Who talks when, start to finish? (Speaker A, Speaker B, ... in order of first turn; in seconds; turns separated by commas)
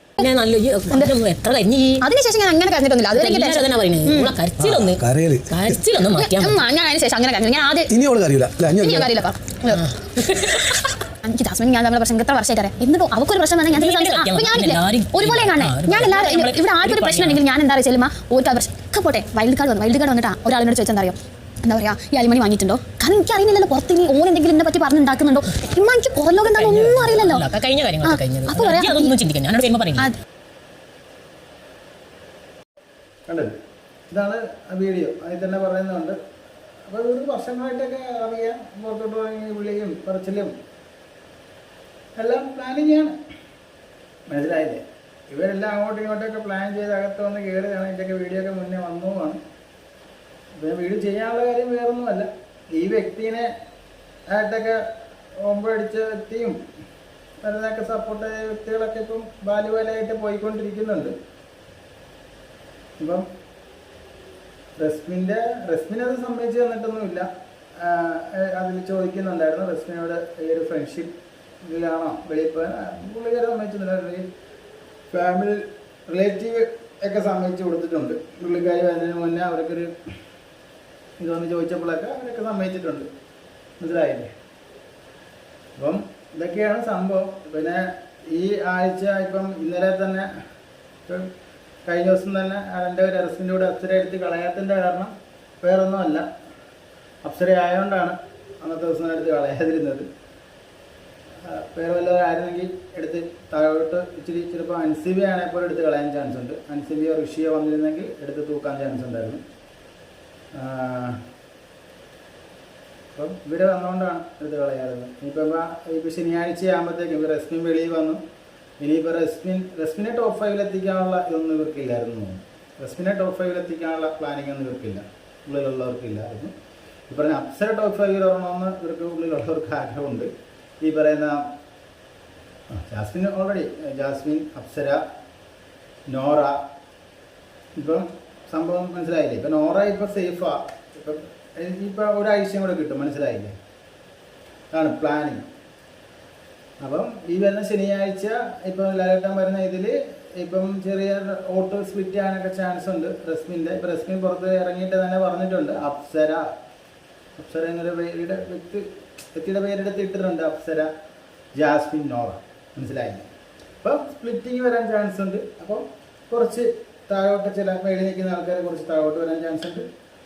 Speaker A: 0.2-2.1, Speaker B: 0.9-1.2, Speaker B: 2.0-4.4, Speaker A: 3.1-6.6, Speaker C: 4.6-5.8, Speaker B: 6.2-8.0, Speaker C: 7.9-9.1, Speaker B: 8.8-27.5, Speaker A: 9.7-10.8, Speaker A: 13.8-17.4, Speaker A: 26.4-30.1, Speaker B: 28.0-29.2, Speaker D: 33.3-33.5, Speaker D: 34.1-36.2, Speaker D: 36.9-40.5, Speaker D: 42.2-43.1, Speaker D: 44.3-49.4, Speaker D: 50.6-53.5, Speaker D: 54.3-54.9, Speaker D: 55.4-56.6, Speaker D: 57.4-61.1, Speaker D: 63.0-63.3, Speaker D: 64.8-71.1, Speaker D: 71.7-74.3, Speaker D: 75.1-79.9, Speaker D: 81.2-83.1, Speaker D: 83.8-84.3, Speaker D: 85.8-90.3, Speaker D: 91.8-96.3, Speaker D: 97.2-100.1, Speaker D: 101.4-109.4, Speaker D: 110.5-111.2, Speaker D: 113.1-118.2, Speaker D: 118.8-126.5, Speaker D: 127.1-130.3, Speaker D: 130.8-131.5, Speaker D: 132.7-135.0, Speaker D: 136.1-136.6, Speaker D: 137.8-143.6, Speaker D: 144.7-145.4, Speaker D: 146.8-156.5, Speaker D: 157.4-160.9, Speaker D: 161.6-163.3, Speaker D: 163.8-169.8